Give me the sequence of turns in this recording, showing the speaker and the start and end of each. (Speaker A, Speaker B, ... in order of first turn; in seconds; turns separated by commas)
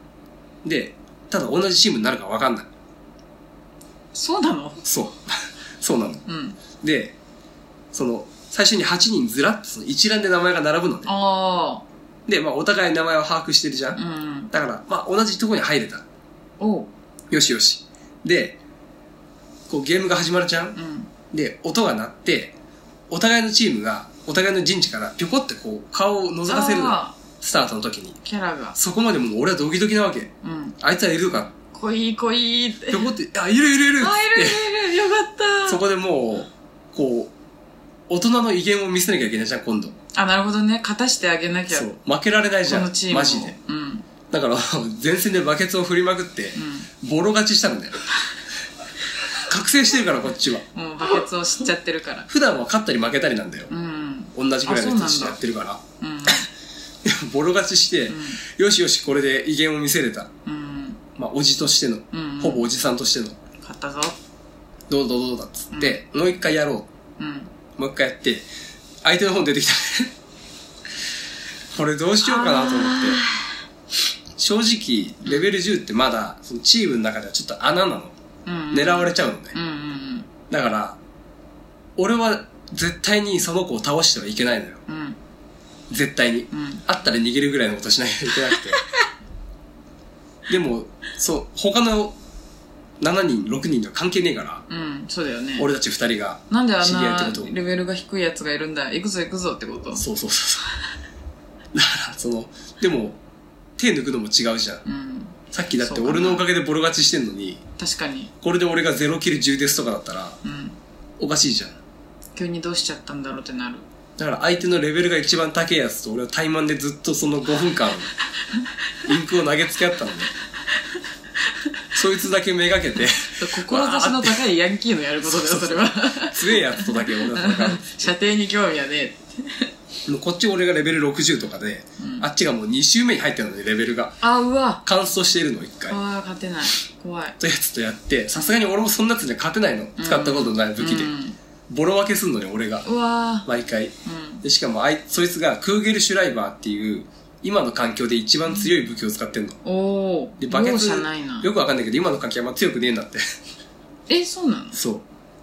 Speaker A: 0.6-2.7, Speaker B: 4.1-4.8, Speaker A: 4.8-6.2, Speaker B: 6.2-6.6, Speaker A: 6.8-7.2, Speaker A: 7.9-11.1, Speaker B: 11.0-11.8, Speaker A: 12.3-14.0, Speaker B: 13.9-14.5, Speaker A: 14.5-16.0, Speaker B: 16.6-16.9, Speaker A: 17.3-18.6, Speaker A: 19.7-20.8, Speaker B: 20.7-21.1, Speaker A: 21.3-22.5, Speaker A: 23.1-28.2, Speaker B: 26.5-27.2, Speaker B: 28.2-28.8, Speaker A: 28.8-31.5, Speaker B: 30.4-30.8, Speaker B: 31.7-33.1, Speaker A: 32.9-34.7, Speaker B: 34.0-35.8, Speaker A: 35.6-37.3, Speaker A: 38.1-39.9, Speaker B: 40.1-41.9, Speaker A: 41.7-43.5, Speaker B: 42.6-44.0, Speaker A: 44.3-48.0, Speaker B: 46.5-46.9, Speaker A: 49.4-50.6, Speaker B: 50.7-52.3, Speaker A: 52.3-53.7, Speaker B: 53.7-55.4, Speaker A: 54.3-55.8, Speaker B: 56.0-56.5, Speaker A: 57.0-60.3, Speaker B: 58.1-58.4, Speaker B: 60.4-61.0, Speaker A: 61.2-63.4, Speaker B: 62.1-62.6, Speaker B: 63.6-64.2, Speaker A: 64.9-66.9, Speaker B: 65.7-66.0, Speaker B: 67.2-67.5, Speaker A: 67.8-68.5, Speaker A: 69.0-70.1, Speaker A: 71.7-73.2, Speaker B: 72.2-73.6, Speaker A: 74.3-78.1, Speaker B: 78.4-80.3, Speaker A: 78.7-79.5, Speaker A: 80.5-81.0, Speaker A: 82.0-84.8, Speaker B: 84.9-85.2, Speaker A: 85.9-88.8, Speaker B: 86.5-86.8, Speaker B: 88.5-89.0, Speaker A: 90.5-92.2, Speaker A: 93.0-94.6, Speaker B: 94.7-95.7, Speaker A: 95.6-97.5, Speaker B: 96.5-100.0, Speaker A: 99.9-100.7, Speaker A: 101.7-103.2, Speaker A: 103.8-104.8, Speaker B: 104.8-106.4, Speaker A: 105.5-107.6, Speaker B: 107.8-108.3, Speaker A: 108.4-110.4, Speaker B: 110.4-110.8, Speaker A: 111.2-111.8, Speaker B: 112.3-113.8, Speaker A: 114.2-118.1, Speaker A: 119.0-120.3, Speaker A: 121.9-124.4, Speaker B: 123.4-129.7, Speaker A: 125.2-128.1, Speaker A: 130.1-134.2, Speaker B: 132.0-132.3, Speaker B: 134.2-134.8, Speaker A: 134.8-136.0, Speaker B: 135.9-137.4, Speaker A: 137.4-141.1, Speaker B: 140.0-141.3, Speaker A: 141.7-142.9, Speaker B: 142.8-143.5, Speaker A: 143.4-149.6, Speaker B: 144.0-144.4, Speaker B: 149.6-151.5, Speaker A: 150.4-153.2, Speaker B: 154.1-154.8, Speaker A: 154.7-155.0